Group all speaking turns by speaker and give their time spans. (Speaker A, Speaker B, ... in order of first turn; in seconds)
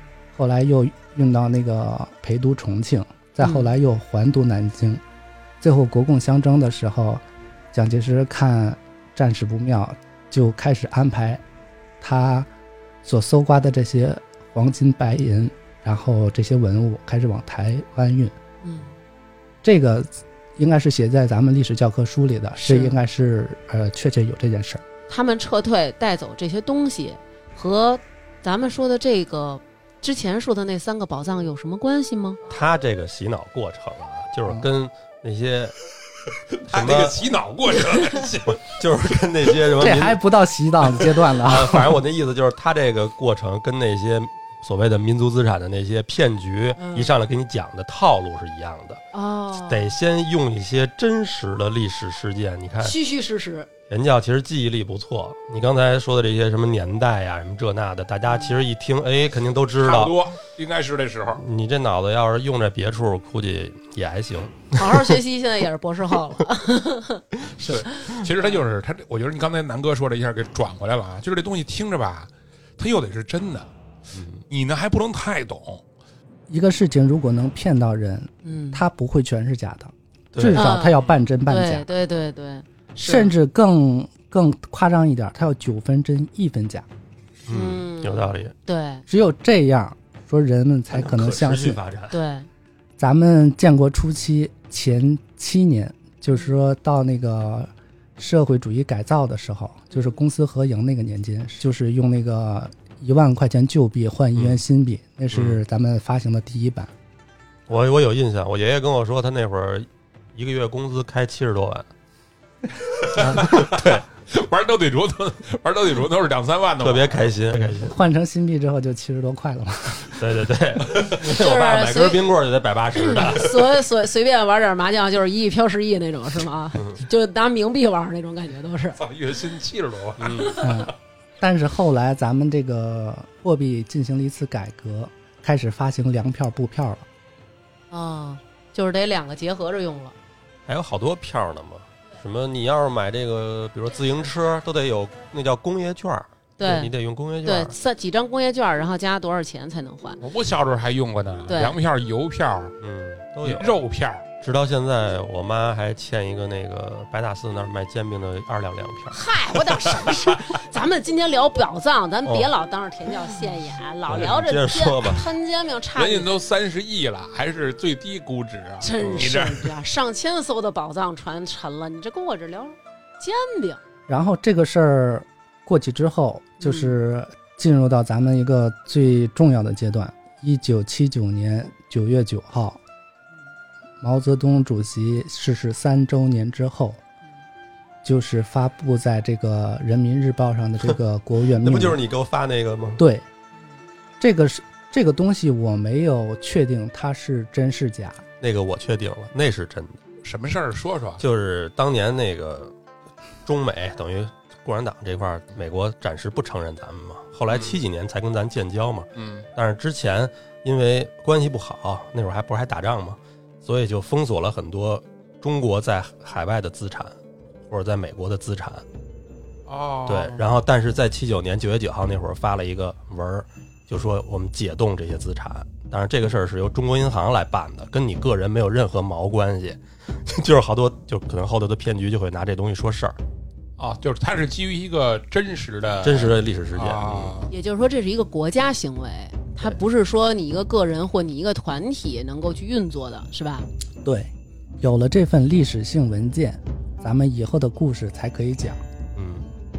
Speaker A: 0.3-5.0, 5.6-11.4, 12.0-12.5, 13.0-18.3, 19.6-24.8, 39.8-42.0, 76.5-81.9, 83.0-86.8, 89.1-91.8, 93.0-106.9, 113.2-113.5, 117.8-120.2, 130.6-137.1, 174.1-182.8, 184.0-187.0, 188.0-192.0, 193.0-193.2, 194.2-198.2, 244.0-248.8
Speaker B: 3.4-3.7, 18.6-18.9, 22.6-23.0, 25.1-32.4, 46.8-47.1, 49.1-49.9, 52.8-53.7, 64.7-67.2, 68.1-68.6, 78.4-78.8, 80.5-83.3, 87.5-89.0, 92.1-92.5, 121.2-122.2, 123.0-129.0, 137.9-140.1, 146.6-146.9, 147.4-150.2, 151.5-151.8, 159.1-166.3, 168.8-173.8, 176.6-177.0, 237.5-243.7
Speaker C: 32.5-35.7, 36.6-37.2, 38.6-40.2, 41.3-49.0, 49.6-53.0, 53.9-60.2, 61.4-65.2, 74.1-74.4, 80.3-80.7, 87.5-88.5, 90.9-92.2, 105.3-105.6, 107.7-111.9, 113.4-114.0, 116.8-117.9, 120.2-123.8, 130.2-130.6, 140.7-147.7, 152.8-153.8, 154.4-159.2, 162.2-162.5, 164.1-165.3, 169.0-169.3, 191.6-193.0, 198.4-200.0, 201.2-202.7, 203.4-217.1, 217.7-218.8, 220.1-233.2, 236.0-237.3, 249.1-249.4
Speaker D: 36.6-38.6, 59.8-61.4, 67.6-73.7, 74.5-75.8, 113.1-117.9, 120.9-121.2, 129.0-130.9, 150.2-152.7, 153.4-154.2, 159.9-160.4, 165.9-169.7, 200.2-201.2, 207.5-207.8, 209.2-209.4, 219.7-220.4, 233.8-237.5